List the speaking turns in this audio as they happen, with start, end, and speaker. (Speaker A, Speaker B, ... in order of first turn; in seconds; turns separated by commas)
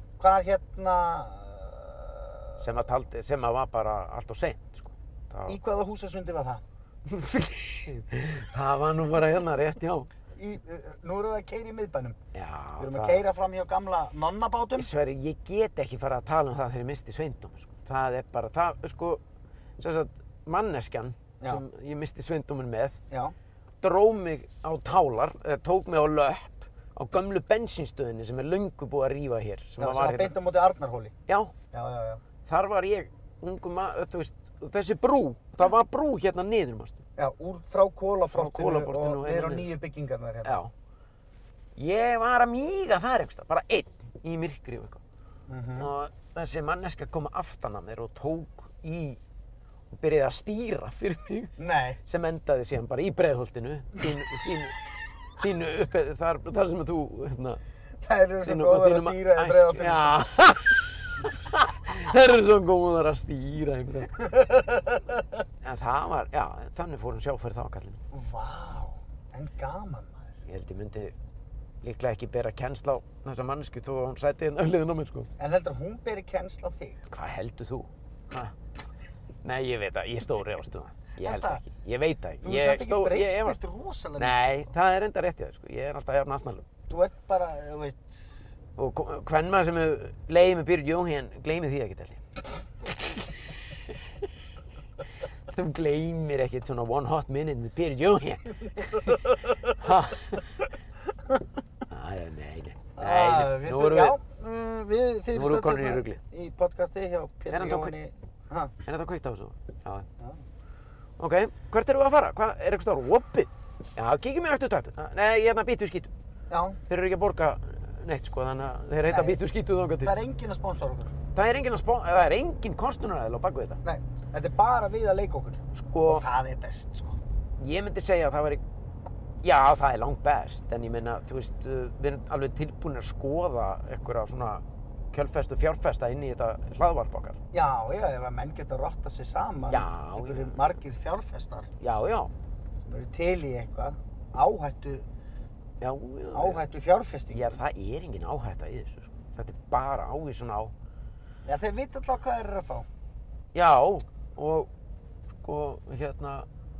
Speaker A: 0.2-2.9, Speaker B: 2.6-5.6, Speaker A: 5.5-6.6, Speaker B: 7.1-10.1, Speaker A: 10.3-12.2, Speaker B: 12.3-13.2, Speaker A: 12.8-14.9, Speaker B: 14.8-19.2, Speaker B: 19.8-23.0, Speaker A: 23.1-23.3, Speaker B: 23.8-30.4, Speaker A: 29.8-31.1, Speaker B: 31.3-31.5, Speaker A: 31.7-32.2, Speaker B: 32.5-37.0, Speaker A: 37.2-40.6, Speaker B: 38.3-39.7, Speaker B: 40.4-40.7, Speaker B: 41.8-45.0, Speaker A: 45.5-45.9, Speaker B: 45.8-49.2, Speaker B: 49.9-54.8, Speaker A: 51.6-52.0, Speaker B: 55.4-57.6, Speaker A: 58.0-60.2, Speaker B: 58.4-64.2, Speaker A: 64.1-65.2, Speaker B: 65.6-68.0, Speaker A: 68.1-70.3, Speaker B: 70.4-71.1, Speaker B: 71.8-75.3, Speaker A: 75.4-77.0, Speaker B: 77.1-78.5, Speaker B: 79.4-83.6, Speaker A: 81.2-81.6, Speaker A: 82.4-84.7, Speaker B: 84.2-86.6, Speaker A: 86.9-88.3, Speaker B: 88.8-92.2, Speaker B: 95.5-100.4, Speaker B: 101.9-104.2, Speaker A: 103.0-108.7, Speaker B: 105.3-106.2, Speaker B: 107.5-107.9, Speaker B: 108.8-110.1, Speaker B: 111.2-116.1, Speaker A: 116.5-116.8, Speaker B: 116.9-120.1, Speaker A: 119.0-119.4, Speaker A: 120.0-121.1, Speaker B: 121.3-123.8, Speaker A: 123.8-127.2, Speaker B: 125.7-126.2, Speaker B: 127.6-128.6, Speaker B: 129.4-137.4, Speaker A: 137.5-141.7, Speaker B: 139.7-140.7, Speaker B: 141.8-142.3, Speaker A: 142.8-145.1, Speaker B: 145.8-146.7, Speaker A: 146.3-147.6, Speaker B: 147.3-150.7, Speaker A: 151.4-152.9, Speaker B: 153.5-154.7, Speaker B: 155.4-156.5